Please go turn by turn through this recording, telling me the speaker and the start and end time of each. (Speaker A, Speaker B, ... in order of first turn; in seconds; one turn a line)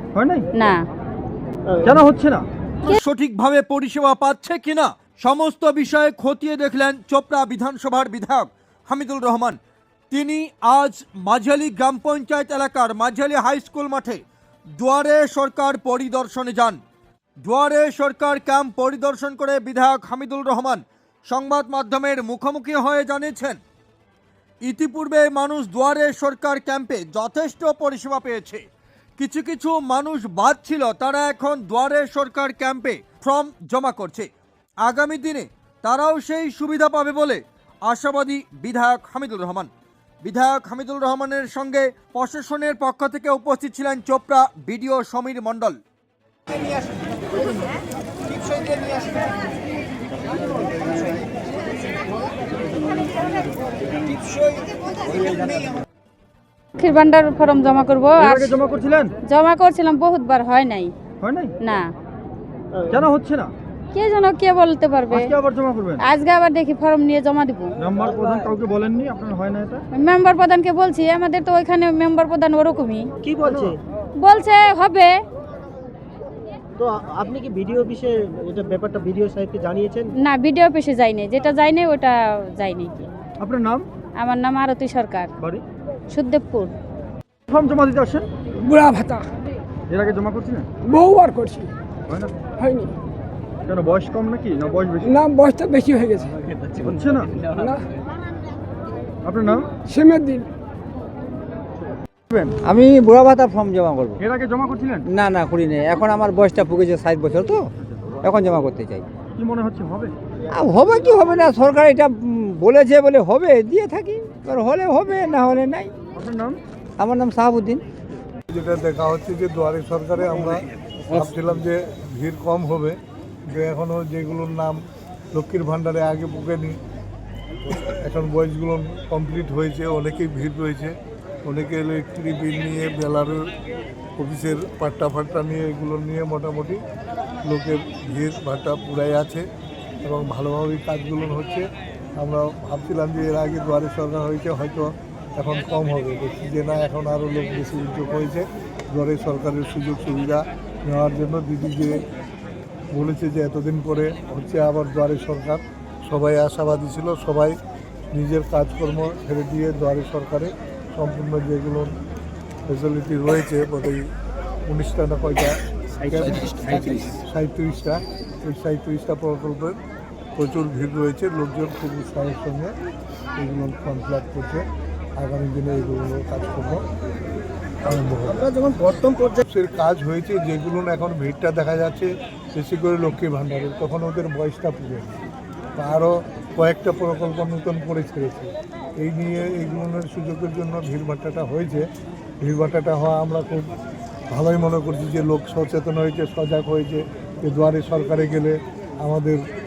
Speaker A: 0.2-0.4
Speaker A: 1.9-2.4
Speaker B: 2.9-9.6
Speaker B: 10.1-14.2
Speaker B: 14.8-16.8
Speaker B: 17.4-23.6
Speaker B: 24.6-28.6
Speaker B: 29.2-34.3
Speaker B: 34.8-39.7
Speaker B: 40.2-45.8
Speaker C: 56.8-58.6
Speaker A: 58.2-59.1
Speaker C: 59.3-60.9
Speaker A: 61.2-61.5
Speaker A: 62.9-63.5
Speaker C: 63.9-65.3
Speaker A: 65.1-66.0
Speaker C: 66.0-67.7
Speaker A: 67.8-69.8
Speaker C: 69.9-73.1
Speaker D: 73.2-73.5
Speaker A: 73.4-73.8
Speaker C: 74.2-75.2
Speaker D: 76.8-80.1
Speaker C: 80.2-82.9
Speaker A: 83.4-83.9
Speaker C: 84.2-85.3
Speaker C: 86.1-86.7
Speaker A: 87.5-88.3
Speaker E: 88.7-89.2
Speaker A: 89.9-90.7
Speaker E: 90.9-91.7
Speaker E: 92.6-92.9
Speaker A: 93.7-95.1
Speaker E: 95.1-96.3
Speaker A: 96.8-97.3
Speaker E: 97.5-97.8
Speaker A: 99.2-99.7
Speaker E: 99.9-100.5
Speaker F: 102.6-104.2
Speaker A: 104.2-105.0
Speaker F: 105.0-107.7
Speaker F: 108.2-109.1
Speaker A: 109.4-110.1
Speaker F: 110.5-115.9
Speaker A: 116.2-116.6
Speaker F: 117.0-117.8
Speaker G: 118.5-124.8
Speaker G: 125.3-126.8
Speaker G: 127.7-133.4
Speaker G: 134.2-136.8
Speaker G: 137.4-139.4
Speaker G: 140.0-141.7
Speaker G: 142.2-152.1
Speaker G: 152.9-157.6
Speaker G: 158.1-162.0
Speaker G: 162.7-164.1
Speaker G: 164.7-169.8
Speaker G: 170.4-172.7
Speaker G: 173.4-174.6
Speaker G: 175.2-176.8
Speaker G: 177.8-185.2
Speaker G: 185.8-191.9
Speaker G: 192.4-193.7
Speaker G: 194.3-199.4